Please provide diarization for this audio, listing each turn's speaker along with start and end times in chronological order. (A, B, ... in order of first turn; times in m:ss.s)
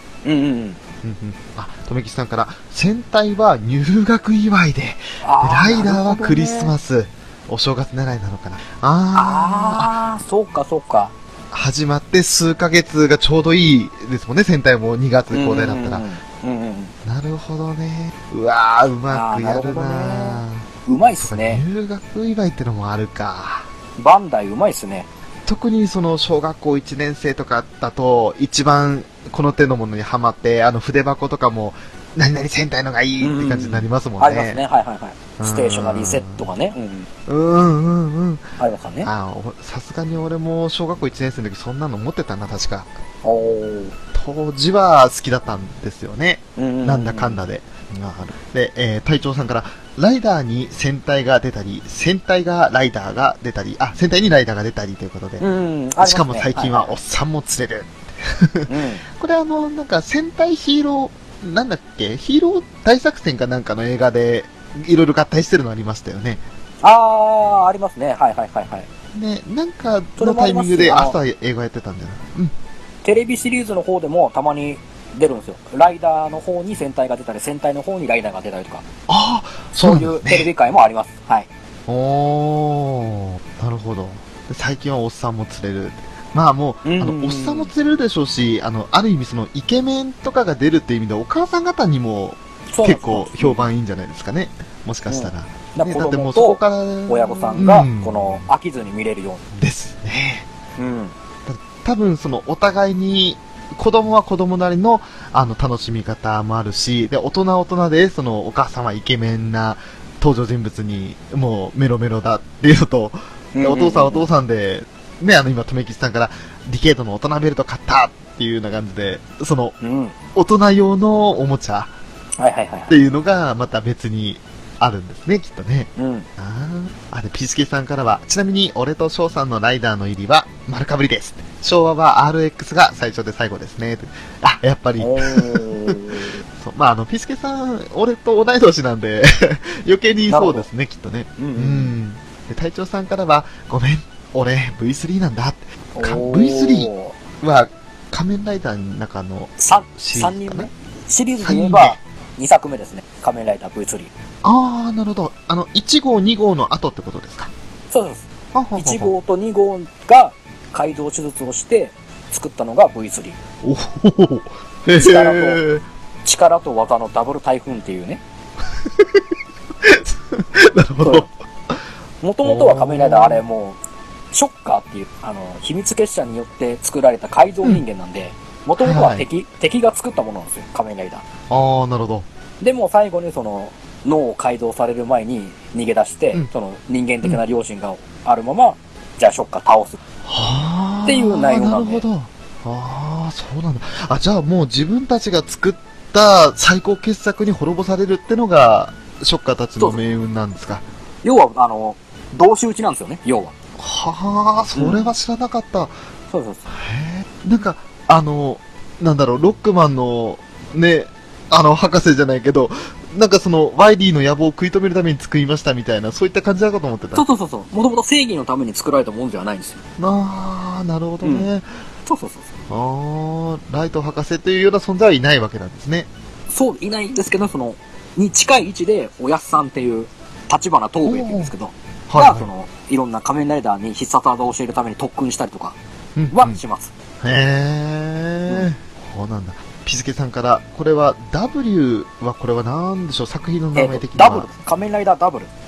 0:00.2-0:00.8 A
0:01.0-0:09.9 B
0:05.2-0:06.7 A
0:09.1-0:11.1 A
0:11.5-0:16.0 B
0:15.3-0:16.9 A
0:17.0-0:20.7 B
0:19.1-0:21.6 A
0:21.2-0:23.7 B
0:24.0-0:25.1 A
0:25.4-0:34.6 B
0:33.2-0:37.1 A
0:35.4-0:36.5 B
0:37.3-0:38.5 B
0:38.6-0:39.1 A
0:39.0-0:42.9 B
0:43.2-0:43.9 A
0:44.1-0:55.4 B
0:46.6-0:47.4 A
0:55.4-0:57.0 A
0:56.0-1:06.4 B
0:58.7-0:59.0 A
1:06.8-1:08.9 A
1:09.1-1:12.5 B
1:10.2-1:11.2 A
1:13.0-1:18.8 A
1:19.1-1:20.5 B
1:19.8-1:21.5 A
1:21.9-1:38.5 B
1:26.8-1:27.7 A
1:32.7-1:33.7 A
1:35.1-1:39.4 A
1:39.5-1:40.4 B
1:40.8-1:41.1 A
1:41.4-1:59.8 B
1:53.5-1:54.3 A
1:59.8-2:00.1 A
2:00.3-2:01.9 B
2:02.4-2:02.9 A
2:02.9-2:16.0 B
2:06.0-2:06.3 A
2:15.0-2:16.4 A
2:16.6-2:30.7 B
2:20.3-2:20.7 A
2:21.4-2:21.9 A
2:25.9-2:27.1 A
2:29.6-2:34.1 A
2:31.4-2:32.0 B
2:34.4-2:37.5 B
2:37.9-2:38.2 A
2:38.5-2:39.1 B
2:38.8-2:43.4 A
2:43.6-2:45.8 B
2:45.0-2:45.6 A
2:46.2-2:48.2 A
2:48.9-2:49.2 B
2:49.8-2:51.8 B
2:51.0-2:51.3 A
2:52.2-2:53.8 A
2:52.4-2:53.4 B
2:54.3-3:01.2 A
2:58.8-2:59.2 B
3:01.5-3:02.3 B
3:02.6-3:10.0 A
3:10.2-3:20.8 B
3:11.0-3:12.0 A
3:21.2-3:23.5 A
3:23.8-3:26.0 B
3:24.7-3:25.1 A
3:26.3-3:26.6 A
3:26.7-3:37.2 B
3:37.1-3:39.8 A
3:40.0-3:41.7 B
3:41.2-3:41.5 A
3:42.0-3:42.5 A
3:42.7-3:46.1 B
3:46.5-3:55.8 A
3:51.0-3:51.5 B
3:52.1-3:52.5 B
3:56.2-3:56.6 B
3:56.3-3:56.9 A
3:57.2-4:04.5 B
4:03.7-4:05.5 A